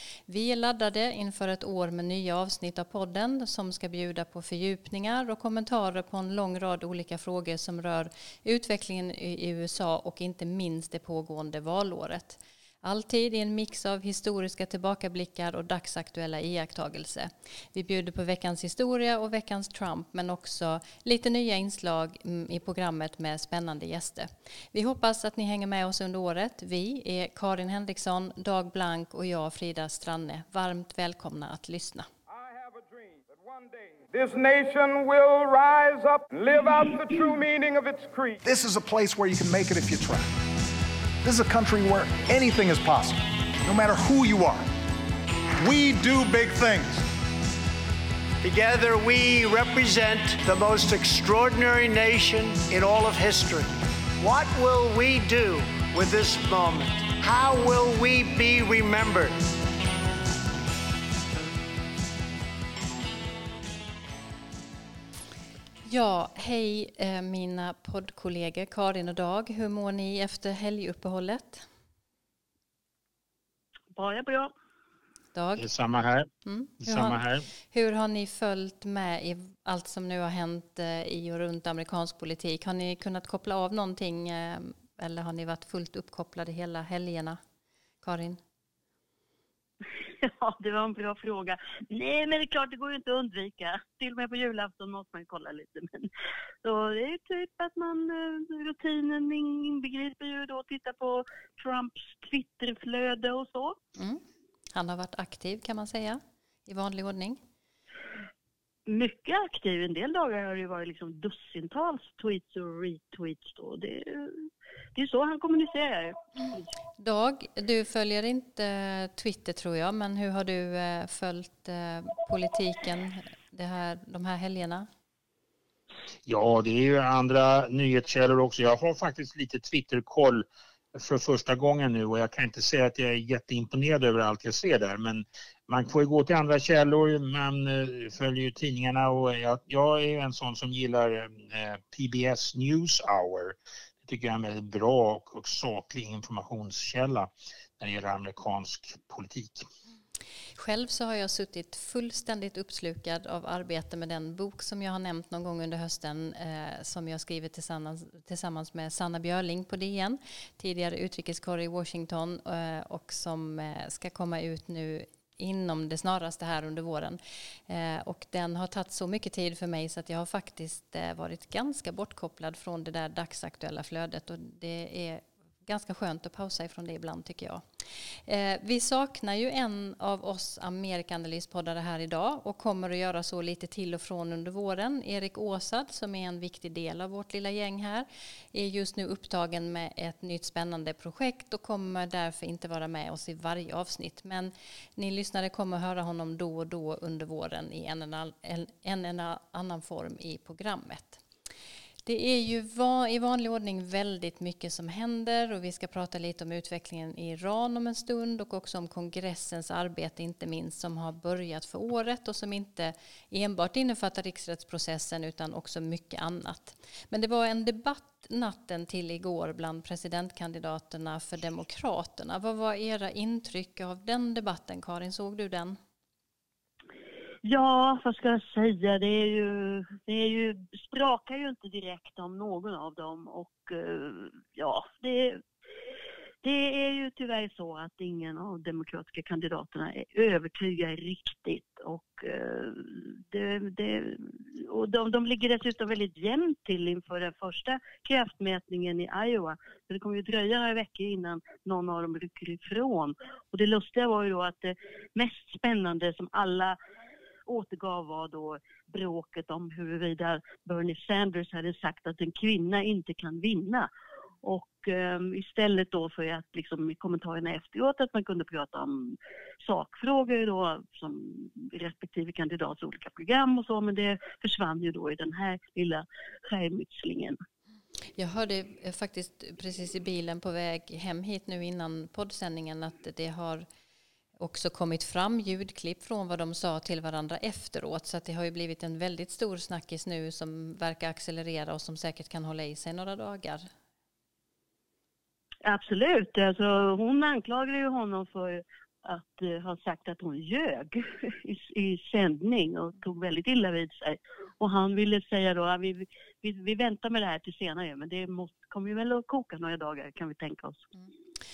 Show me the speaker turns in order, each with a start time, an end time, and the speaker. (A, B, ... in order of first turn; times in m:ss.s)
0:00.3-0:32.1 A
0:32.3-0:38.4 B
0:38.4-0:40.3 C
0:41.2-0:44.7 C
0:45.6-0:47.1 C
0:48.4-0:59.4 D
1:05.8-1:11.7 A
1:14.0-1:14.5 E
1:15.4-1:15.7 A
1:15.6-1:16.3 F
1:16.4-1:27.4 A
1:16.8-1:17.5 F
1:28.0-1:28.4 A
1:30.2-1:36.1 E
1:36.6-1:43.8 E
1:44.0-1:44.2 A
1:44.7-1:47.4 A
1:48.9-1:56.7 E
1:57.0-2:04.9 A
2:06.3-2:29.6 F
2:30.6-2:57.6 A
2:58.3-3:21.2 A
3:22.1-3:45.8 A
3:47.4-3:55.4 E
3:56.4-4:16.8 E
4:17.5-4:23.9 E
4:24.4-4:37.4 E
4:38.2-4:43.7 A
4:44.4-4:53.7 A
4:55.6-5:10.9 E